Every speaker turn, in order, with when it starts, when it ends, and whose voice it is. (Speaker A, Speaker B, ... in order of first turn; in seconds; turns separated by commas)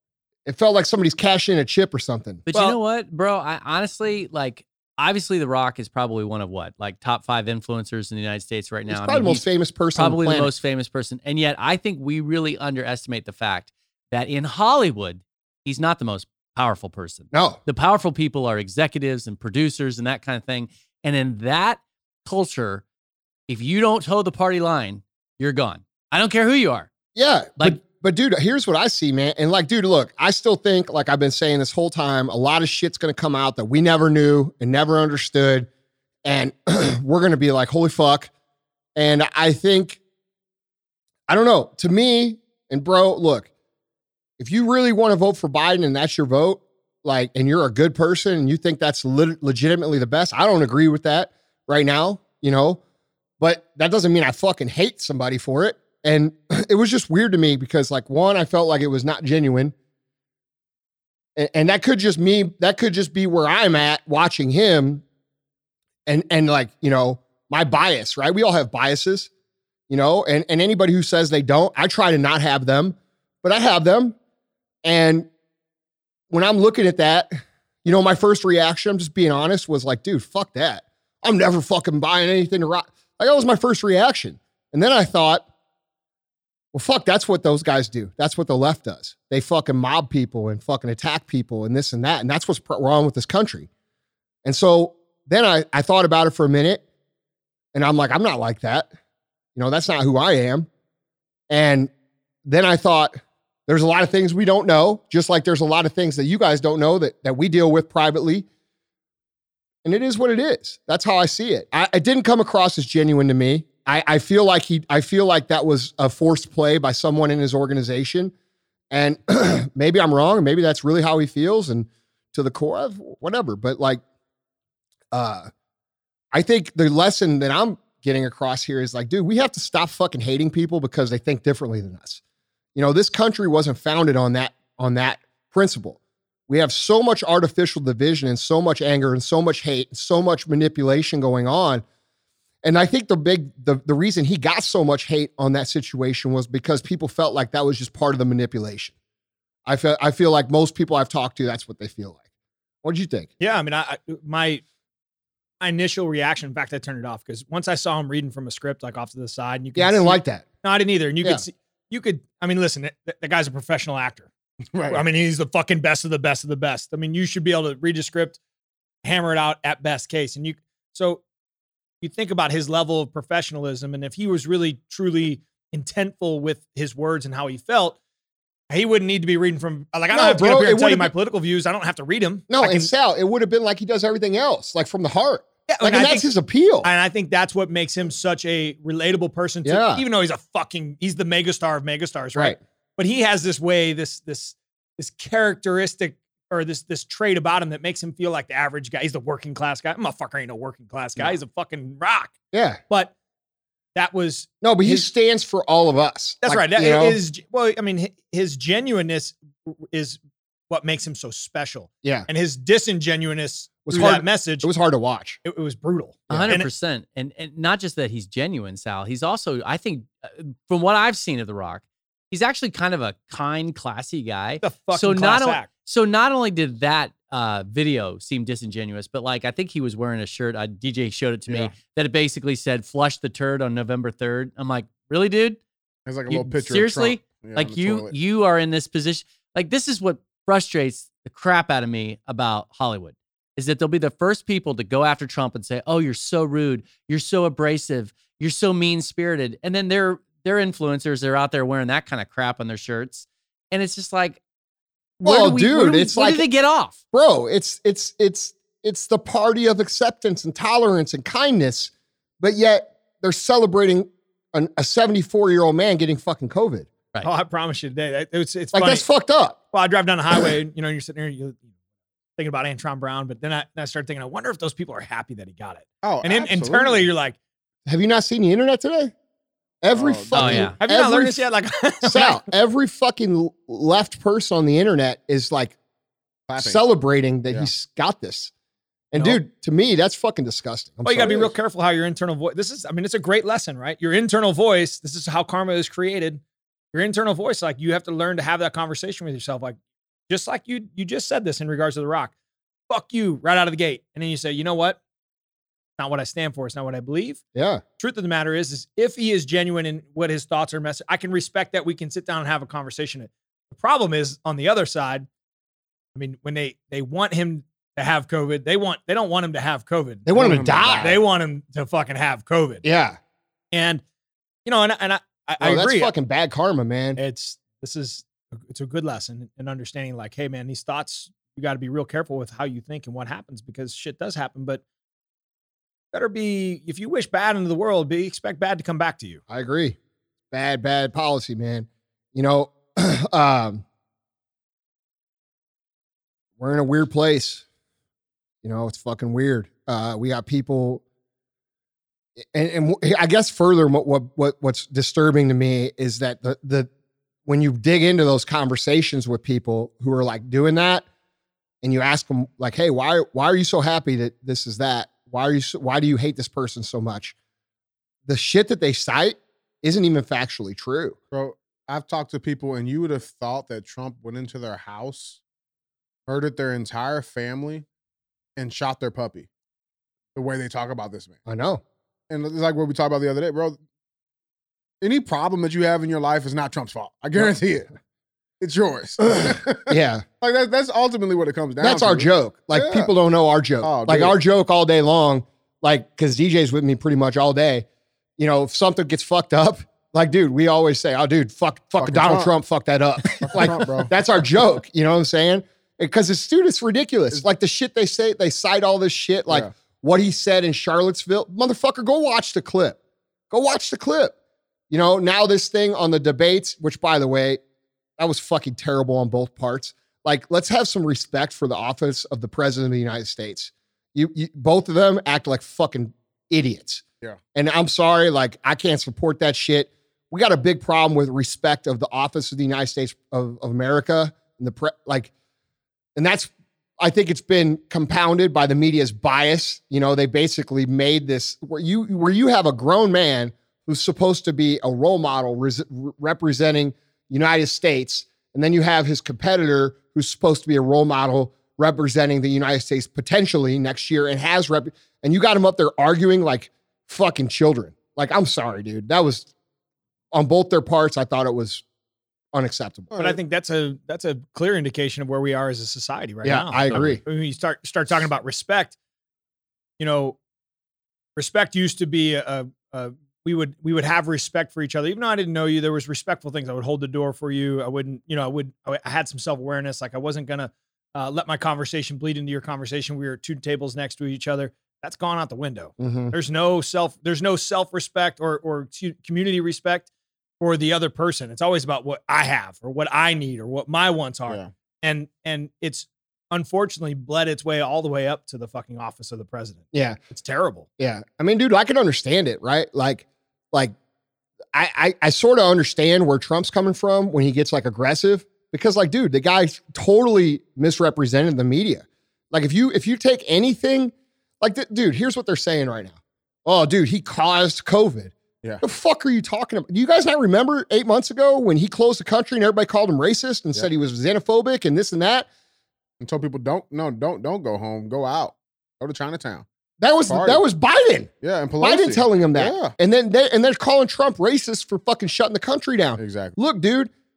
Speaker A: 0.5-2.4, Speaker B: 2.5-9.4, Speaker C: 2.5-2.8, Speaker A: 8.9-10.5, Speaker B: 9.9-22.8, Speaker A: 17.3-17.6, Speaker B: 23.5-26.9, Speaker A: 27.1-35.7, Speaker A: 36.2-38.3, Speaker A: 39.0-40.0, Speaker A: 41.3-43.5, Speaker A: 44.4-52.8, Speaker A: 53.4-59.8, Speaker A: 61.4-65.0, Speaker A: 66.1-69.3, Speaker A: 69.9-74.2, Speaker A: 74.8-75.3, Speaker A: 76.3-85.5, Speaker A: 86.7-93.7, Speaker A: 94.5-96.8, Speaker A: 97.7-98.9, Speaker A: 99.6-100.7, Speaker A: 101.5-101.9, Speaker A: 102.5-108.5, Speaker A: 109.8-118.3, Speaker A: 118.9-124.0, Speaker A: 125.1-125.5, Speaker A: 126.3-132.2, Speaker A: 132.8-141.8, Speaker A: 142.6-148.9, Speaker A: 149.7-152.2, Speaker A: 152.8-153.3, Speaker C: 153.4-154.6, Speaker C: 155.6-164.3, Speaker A: 159.8-160.4, Speaker D: 164.7-165.1, Speaker C: 164.9-168.4, Speaker C: 169.0-171.2, Speaker C: 172.0-178.0, Speaker C: 178.7-182.9, Speaker A: 180.1-181.1, Speaker A: 182.5-186.9, Speaker C: 185.7-186.3, Speaker C: 186.8-202.3, Speaker A: 189.6-190.0, Speaker A: 202.5-202.8, Speaker C: 203.9-205.1, Speaker A: 204.6-207.2, Speaker C: 206.4-210.2, Speaker C: 210.7-214.7, Speaker A: 212.0-212.3, Speaker A: 213.9-215.4, Speaker C: 215.4-216.7, Speaker B: 216.3-235.6, Speaker C: 224.6-225.7, Speaker D: 231.5-231.7, Speaker D: 236.1-238.2, Speaker B: 236.3-254.4, Speaker B: 255.2-257.0, Speaker A: 255.2-256.5, Speaker A: 257.1-266.9, Speaker C: 267.2-269.1, Speaker A: 268.7-269.6, Speaker C: 269.7-271.7, Speaker C: 272.4-277.4, Speaker D: 276.0-277.1, Speaker A: 277.9-279.1, Speaker A: 279.8-281.4, Speaker D: 279.9-280.7, Speaker B: 280.3-280.8, Speaker C: 280.8-282.4, Speaker A: 282.0-285.8, Speaker D: 286.5-286.8, Speaker A: 286.6-288.5, Speaker A: 289.1-291.5, Speaker C: 289.1-289.4, Speaker C: 291.1-296.4, Speaker C: 296.9-299.8, Speaker C: 300.3-302.3, Speaker C: 302.9-305.0, Speaker C: 306.0-307.4, Speaker A: 307.6-307.8, Speaker C: 308.0-315.3, Speaker C: 316.1-322.8, Speaker A: 320.3-321.2, Speaker D: 320.4-321.2, Speaker A: 322.8-323.2, Speaker C: 323.7-324.0, Speaker C: 324.7-326.1, Speaker A: 325.6-327.2, Speaker C: 327.2-334.8, Speaker C: 336.1-339.4, Speaker A: 339.5-340.0, Speaker A: 340.5-343.8, Speaker A: 346.6-347.6, Speaker A: 348.6-351.0, Speaker A: 352.4-356.9, Speaker A: 357.5-361.1, Speaker A: 361.8-367.4, Speaker A: 368.3-371.2, Speaker D: 371.3-375.4, Speaker D: 376.3-377.9, Speaker D: 378.6-379.5, Speaker D: 380.4-381.4, Speaker A: 381.5-381.8, Speaker D: 382.3-383.8, Speaker D: 385.0-387.9, Speaker D: 388.6-393.1, Speaker A: 389.3-390.2, Speaker A: 391.8-397.9, Speaker D: 393.8-394.4, Speaker A: 398.4-413.0, Speaker D: 402.0-402.5, Speaker D: 403.4-404.1, Speaker A: 413.5-414.3, Speaker A: 414.9-417.6, Speaker A: 418.2-435.3, Speaker A: 436.2-459.5, Speaker A: 460.3-461.8, Speaker A: 462.5-463.1, Speaker C: 463.2-468.9, Speaker A: 466.4-467.2, Speaker B: 466.9-467.2, Speaker C: 470.0-470.4, Speaker C: 471.4-490.1, Speaker A: 486.0-486.3, Speaker C: 490.6-500.9, Speaker A: 499.9-500.2, Speaker A: 501.0-503.9, Speaker A: 504.7-525.5, Speaker D: 526.2-529.6, Speaker A: 530.0-531.3, Speaker D: 530.3-530.6, Speaker D: 531.4-532.9, Speaker A: 531.8-537.1, Speaker D: 536.2-536.5